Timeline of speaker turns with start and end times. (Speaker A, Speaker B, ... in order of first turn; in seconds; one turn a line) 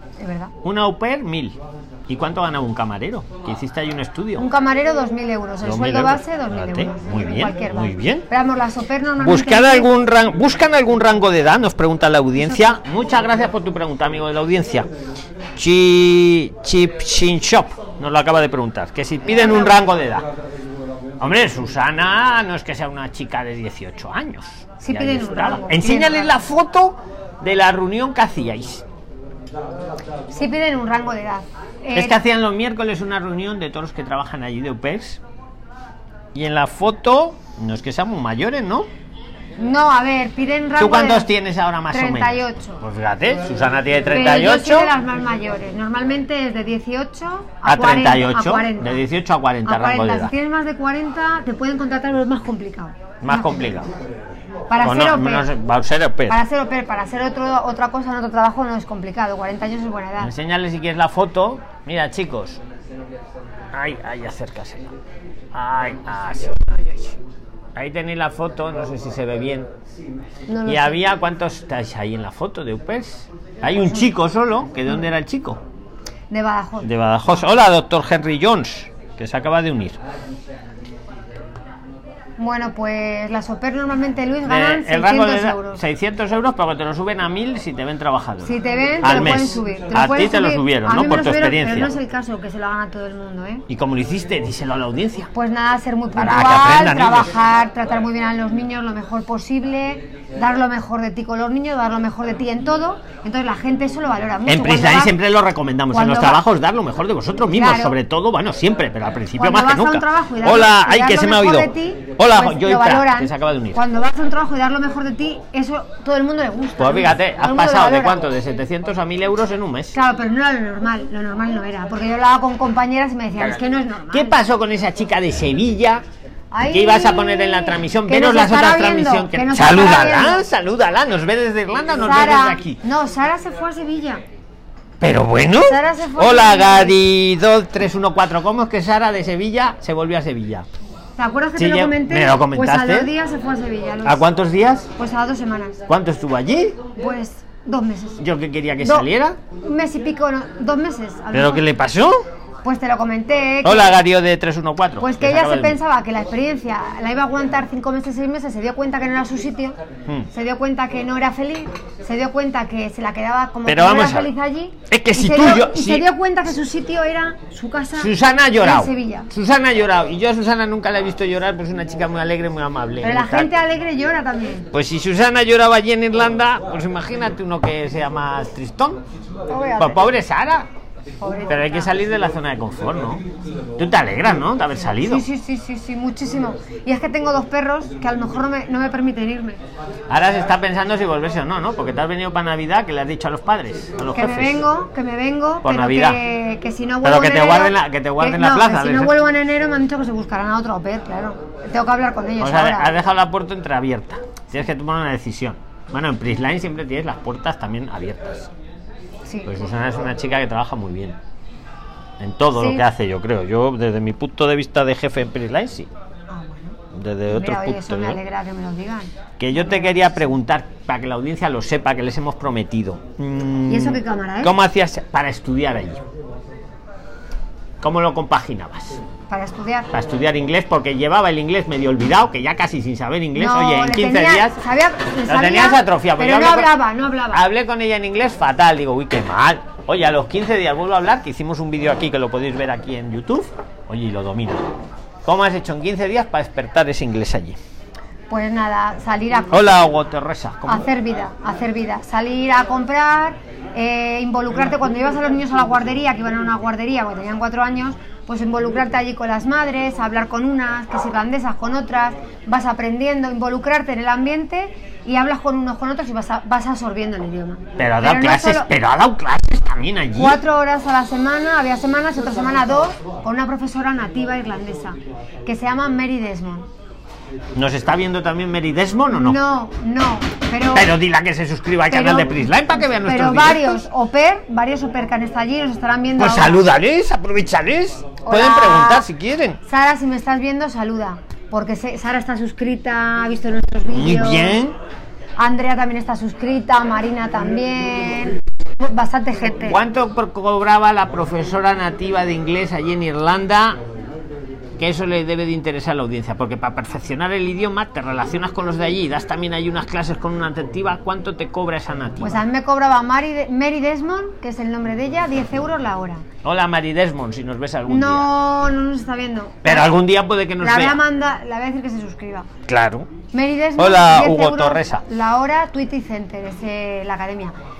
Speaker A: 0.2-0.5
Speaker B: 0.6-4.5
Speaker A: 4.4-9.9
Speaker B: 5.6-8.2
Speaker B: 9.2-14.9
Speaker A: 12.4-12.8
Speaker B: 15.6-20.3
Speaker A: 19.2-19.8
Speaker B: 21.2-28.8
Speaker A: 24.8-26.3
Speaker A: 30.3-32.2
Speaker B: 31.9-35.2
Speaker B: 36.3-38.9
Speaker A: 39.6-41.3
Speaker B: 40.8-44.9
Speaker A: 41.9-42.8
Speaker A: 44.1-49.0
Speaker B: 47.6-50.3
Speaker A: 49.6-53.8
Speaker B: 53.2-53.9
Speaker A: 54.7-55.5
Speaker B: 54.8-56.4
Speaker A: 56.3-60.3
Speaker B: 60.2-62.6
Speaker B: 63.7-64.9
Speaker B: 65.5-67.2
Speaker B: 67.7-69.7
Speaker A: 70.5-71.0
Speaker B: 70.7-75.6
Speaker A: 76.3-76.9
Speaker B: 76.8-80.0
Speaker A: 82.4-85.8
Speaker B: 84.4-91.9
Speaker A: 88.4-93.6
Speaker B: 93.7-95.3
Speaker A: 95.3-105.2
Speaker B: 96.1-97.3
Speaker B: 104.5-113.8
Speaker A: 105.9-106.4
Speaker A: 107.5-107.9
Speaker A: 109.4-118.2
Speaker B: 116.8-120.0
Speaker A: 119.9-124.4
Speaker B: 124.1-126.0
Speaker A: 126.5-130.4
Speaker B: 126.7-132.8
Speaker A: 132.0-134.2
Speaker B: 135.0-140.7
Speaker A: 135.6-137.0
Speaker A: 141.2-144.2
Speaker B: 141.6-143.1
Speaker B: 144.0-144.9
Speaker A: 144.9-145.8
Speaker B: 145.9-146.8
Speaker A: 146.9-148.2
Speaker B: 148.2-149.4
Speaker A: 148.8-149.1
Speaker A: 149.6-151.7
Speaker B: 151.3-152.2
Speaker A: 152.6-154.0
Speaker B: 153.6-155.8
Speaker A: 155.0-159.8
Speaker A: 160.3-169.3
Speaker B: 163.7-164.3
Speaker B: 164.9-166.1
Speaker B: 167.9-173.5
Speaker A: 173.0-174.7
Speaker B: 174.7-179.0
Speaker A: 179.5-180.1
Speaker B: 179.8-180.7
Speaker A: 181.2-181.9
Speaker B: 181.5-183.2
Speaker B: 183.8-185.2
Speaker A: 184.8-189.6
Speaker B: 190.1-194.6
Speaker A: 194.1-202.9
Speaker B: 195.6-196.2
Speaker B: 197.0-199.1
Speaker B: 202.4-208.5
Speaker A: 209.2-209.6
Speaker B: 209.4-211.2
Speaker B: 212.2-215.9
Speaker A: 212.6-212.8
Speaker A: 216.3-220.0
Speaker B: 216.9-218.2
Speaker B: 219.4-226.0
Speaker A: 223.7-224.5
Speaker B: 227.8-229.0
Speaker A: 229.3-229.9
Speaker B: 229.9-234.6
Speaker A: 233.3-237.4
Speaker B: 235.3-236.8
Speaker B: 237.3-244.7
Speaker B: 245.2-247.6
Speaker A: 248.3-249.8
Speaker B: 249.5-250.8
Speaker A: 250.7-268.7
Speaker B: 267.8-270.4
Speaker A: 270.1-276.7
Speaker B: 277.5-279.4
Speaker A: 279.1-280.9
Speaker B: 280.7-283.8
Speaker A: 281.9-286.6
Speaker B: 286.2-289.6
Speaker A: 288.2-289.1
Speaker A: 289.6-294.6
Speaker B: 293.9-294.7
Speaker A: 295.4-299.8
Speaker B: 299.6-303.8
Speaker B: 304.8-312.4
Speaker A: 312.2-316.2
Speaker B: 316.4-318.3
Speaker A: 317.9-319.9
Speaker B: 319.6-321.0
Speaker A: 320.6-322.5
Speaker B: 322.7-323.1
Speaker A: 323.3-327.5
Speaker B: 323.8-325.0